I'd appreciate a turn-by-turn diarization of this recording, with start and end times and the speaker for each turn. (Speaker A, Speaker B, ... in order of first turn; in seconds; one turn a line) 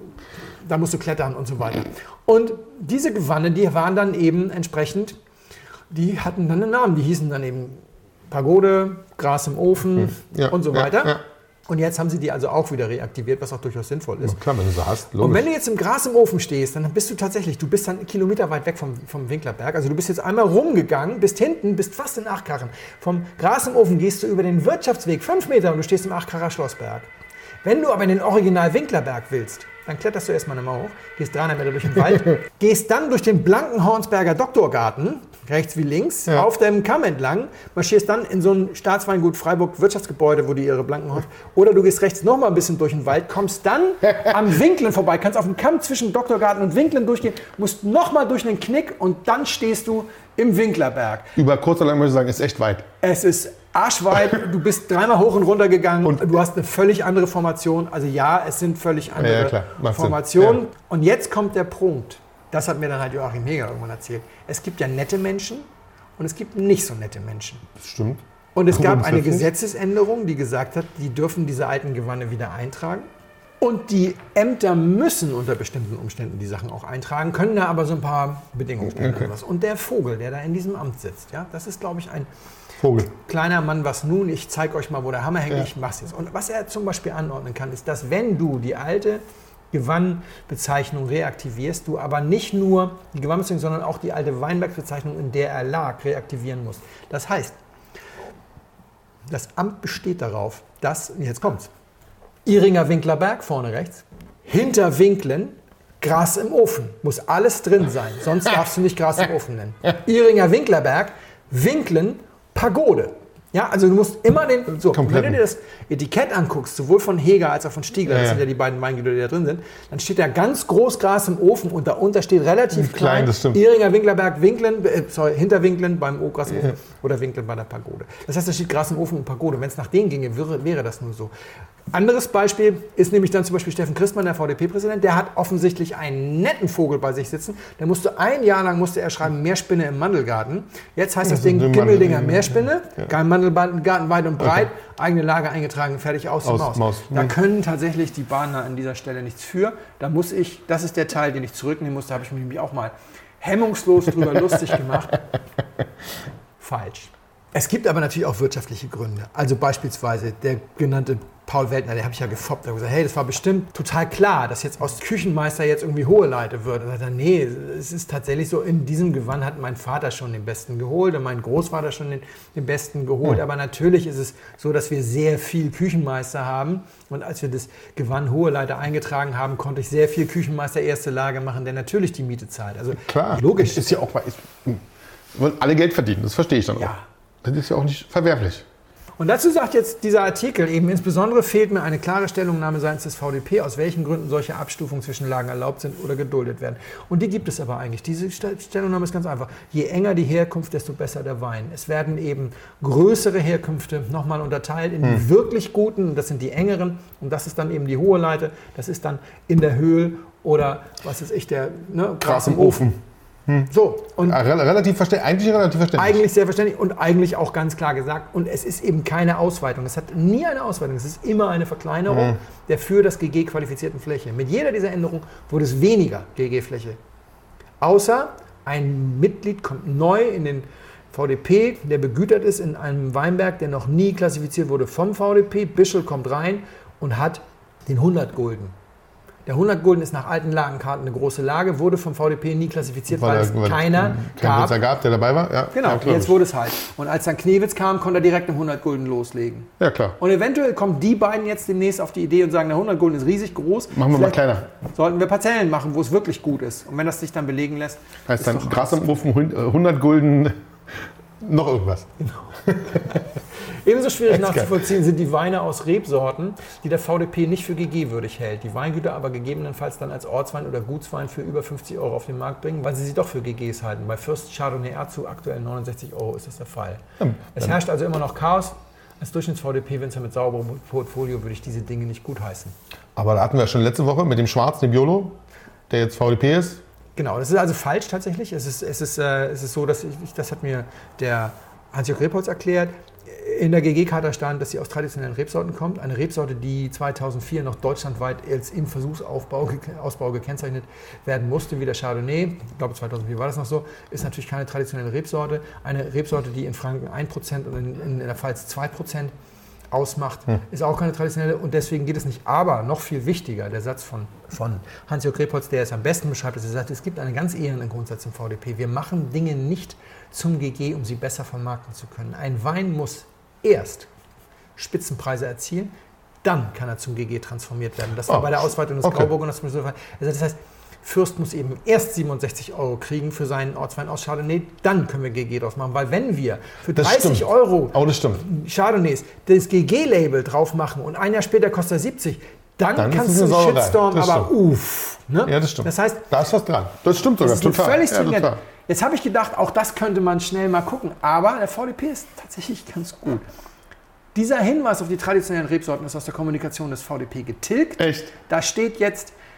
Speaker A: 0.6-5.2
Speaker A: 5.9-14.4
Speaker B: 10.0-11.2
Speaker B: 14.2-15.5
Speaker A: 15.2-27.1
Speaker A: 27.6-51.4
Speaker B: 51.4-52.9
Speaker A: 53.0-65.7
Speaker B: 59.2-60.6
Speaker A: 66.2-67.7
Speaker B: 67.8-69.5
Speaker A: 68.5-73.1
Speaker A: 73.6-82.3
Speaker B: 78.8-79.3
Speaker B: 82.8-83.1
Speaker A: 83.0-97.5
Speaker A: 99.3-101.7
Speaker A: 102.4-131.3
Speaker B: 114.8-115.4
Speaker B: 118.1-118.4
Speaker B: 122.7-123.6
Speaker A: 131.9-155.2
Speaker B: 141.2-142.6
Speaker B: 146.4-147.3
Speaker A: 156.6-184.0
Speaker B: 183.0-186.9
Speaker A: 186.8-187.0
Speaker B: 187.4-188.6
Speaker A: 189.2-212.9
Speaker B: 212.2-216.2
Speaker A: 213.7-214.4
Speaker A: 216.0-227.0
Speaker B: 222.1-222.4
Speaker A: 227.8-238.7
Speaker A: 239.4-244.8
Speaker B: 243.1-246.4
Speaker A: 245.7-259.2
Speaker B: 249.8-250.2
Speaker B: 253.9-254.7
Speaker B: 258.3-262.1
Speaker A: 262.2-263.2
Speaker B: 262.6-263.2
Speaker A: 263.8-277.0
Speaker B: 264.3-264.8
Speaker B: 277.2-277.7
Speaker A: 277.5-282.8
Speaker B: 283.1-285.4
Speaker B: 285.9-286.8
Speaker A: 287.1-309.3
Speaker A: 309.9-324.1
Speaker A: 324.8-325.9
Speaker A: 326.4-346.2
Speaker B: 328.3-329.3
Speaker B: 336.9-338.4
Speaker B: 342.9-344.5
Speaker B: 345.4-348.6
Speaker A: 347.4-353.4
Speaker A: 354.3-359.3
Speaker B: 358.0-358.3